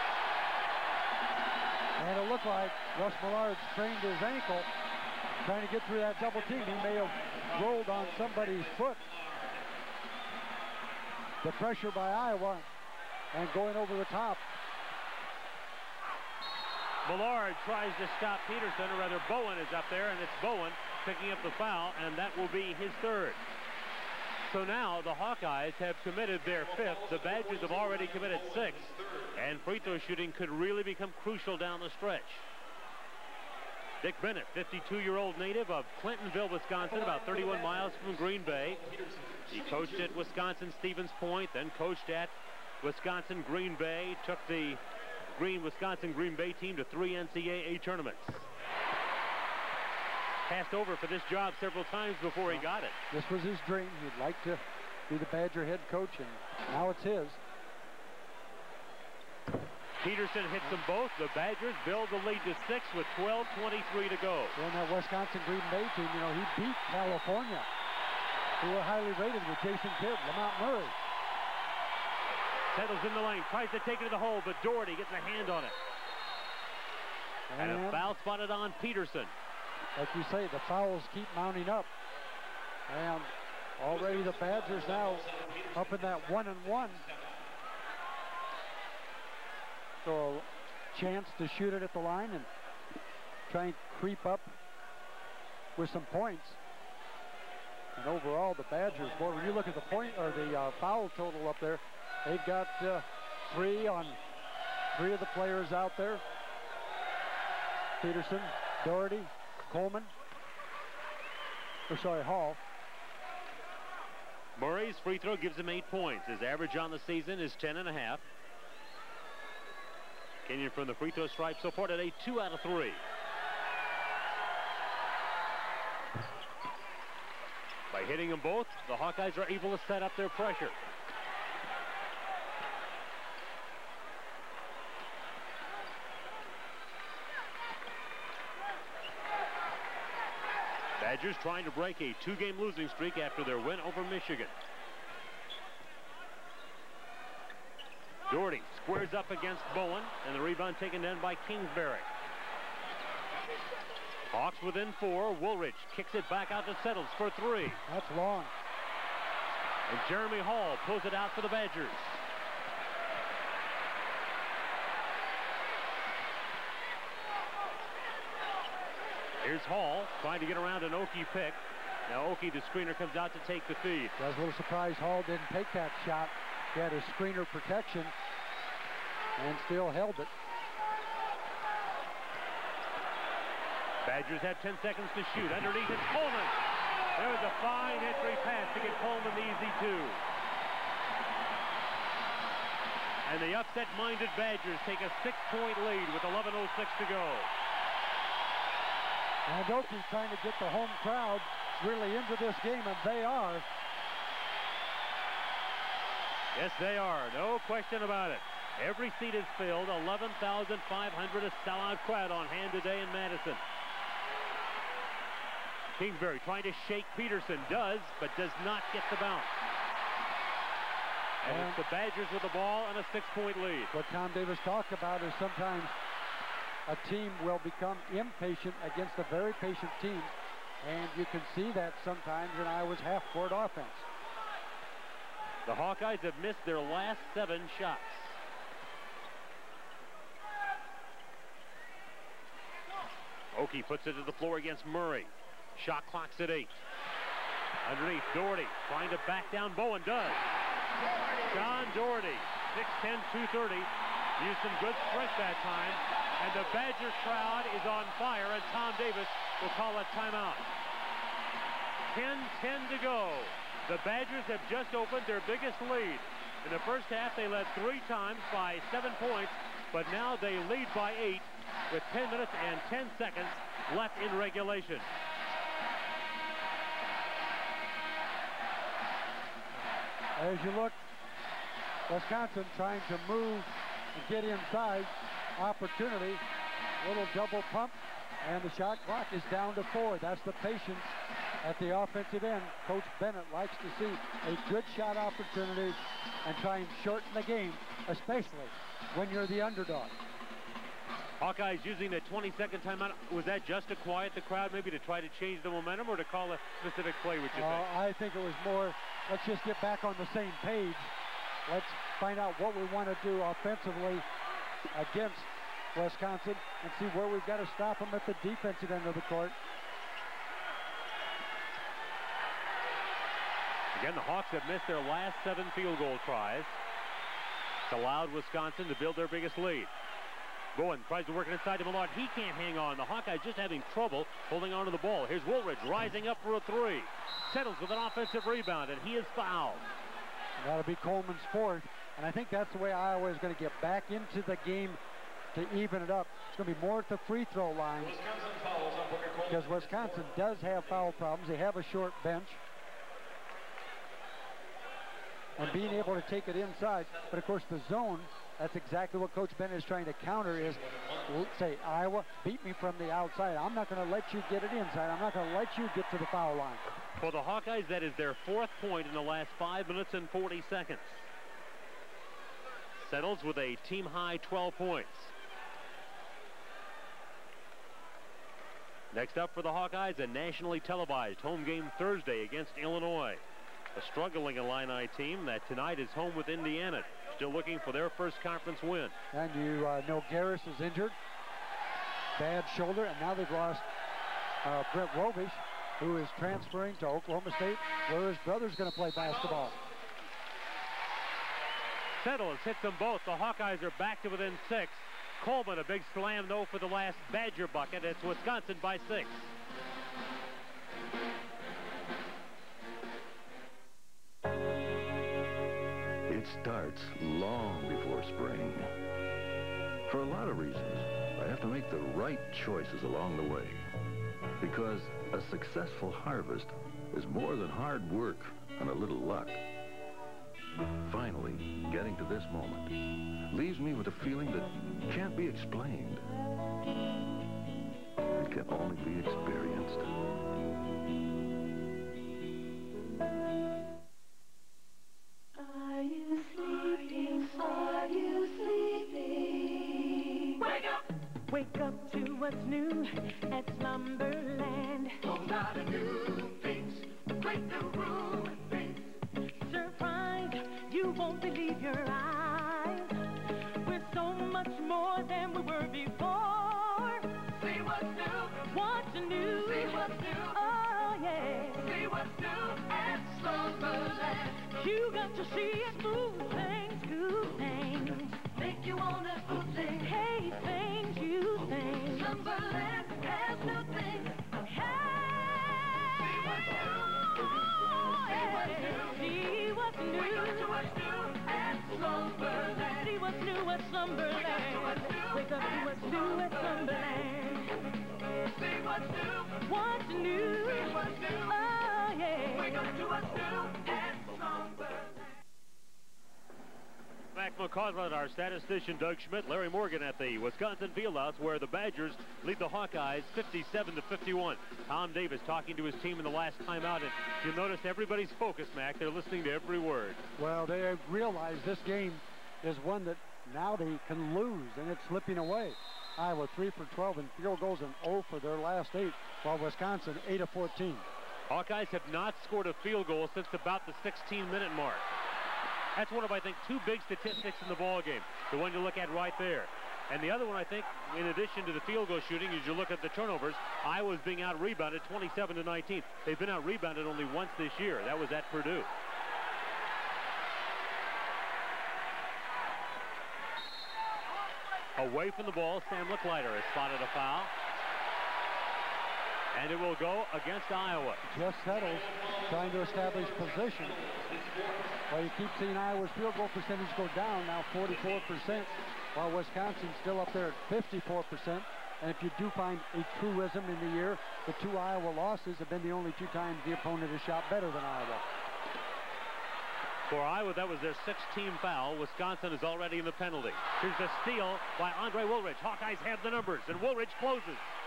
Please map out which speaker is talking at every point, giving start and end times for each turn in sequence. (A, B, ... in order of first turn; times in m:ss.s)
0:02.0-0:04.7 A
0:05.4-0:09.0 A
0:11.4-0:12.7 A
0:13.3-0:14.4 A
0:17.0-0:23.4 B
0:24.5-0:32.4 B
0:34.0-0:38.8 B
0:39.5-0:48.4 B
0:50.5-0:53.0 B
0:52.5-0:57.4 A
1:00.0-1:04.6 B
1:04.6-1:07.7 A
1:08.6-1:11.0 A
1:12.7-1:15.8 B
1:17.5-1:18.0 A
1:17.6-1:19.3 B
1:20.0-1:21.9 A
1:22.9-1:27.1 A
1:30.0-1:32.5 A
1:33.5-1:34.5 A
1:35.8-1:36.6 A
1:38.0-1:44.2 A
1:44.9-1:46.2 A
1:48.0-1:50.1 A
1:51.9-1:52.6 A
1:54.6-1:58.2 B
2:00.5-2:03.0 B
2:07.9-2:10.8 B
2:21.0-2:24.5 B
2:28.3-2:32.1 B
2:34.3-2:37.8 B
2:37.9-2:38.5 A
2:39.9-2:42.2 B
2:49.4-2:54.2 B
2:54.2-2:58.1 A
2:59.4-3:00.3 A
3:04.0-3:06.6 B
3:07.2-3:10.2 B
3:13.2-3:17.5 B
3:19.5-3:23.7 A
3:26.6-3:33.6 B
3:36.0-3:39.5 B
3:41.4-3:43.9 B
3:41.5-3:41.8 A
3:43.9-3:46.0 A
3:46.9-3:54.1 A
3:55.7-3:58.4 B
4:03.5-4:06.8 B
4:07.8-4:10.5 B
4:11.5-4:20.7 B
4:22.1-4:35.1 B
4:40.4-4:41.0 A
4:42.1-4:46.4 A
4:47.0-4:51.1 A
4:51.6-5:00.2 A
5:01.4-5:07.8 B
5:07.6-5:11.1 A
5:11.7-5:14.3 A
5:14.9-5:19.6 A
5:23.9-5:26.8 B
5:27.9-5:29.9 B
5:30.8-5:39.9 B
5:40.6-5:45.0 A
5:45.5-5:48.2 A
5:49.5-5:52.6 A
5:55.6-6:06.8 A
6:07.2-6:11.3 B
6:13.0-6:15.3 B
6:19.1-6:23.4 B
6:24.0-6:29.1 B
6:29.3-6:31.2 A
6:32.4-6:33.9 A
6:34.6-6:39.8 A
6:42.2-6:49.5 B
6:56.3-6:58.9 C
7:00.1-7:03.9 C
7:04.6-7:09.6 C
7:11.0-7:13.0 C
7:13.5-7:16.3 C
7:18.4-7:20.2 C
7:25.6-7:43.3 D
7:43.8-8:17.8 D
8:18.5-8:24.9 D
8:27.3-8:40.2 B
8:40.4-8:51.1 A
8:51.5-8:55.0 B
8:56.0-9:08.9 B
9:15.0-9:17.5 B
9:19.5-9:21.3 B
9:21.3-9:24.0 A
9:25.1-9:38.2 A
9:40.1-9:47.6 B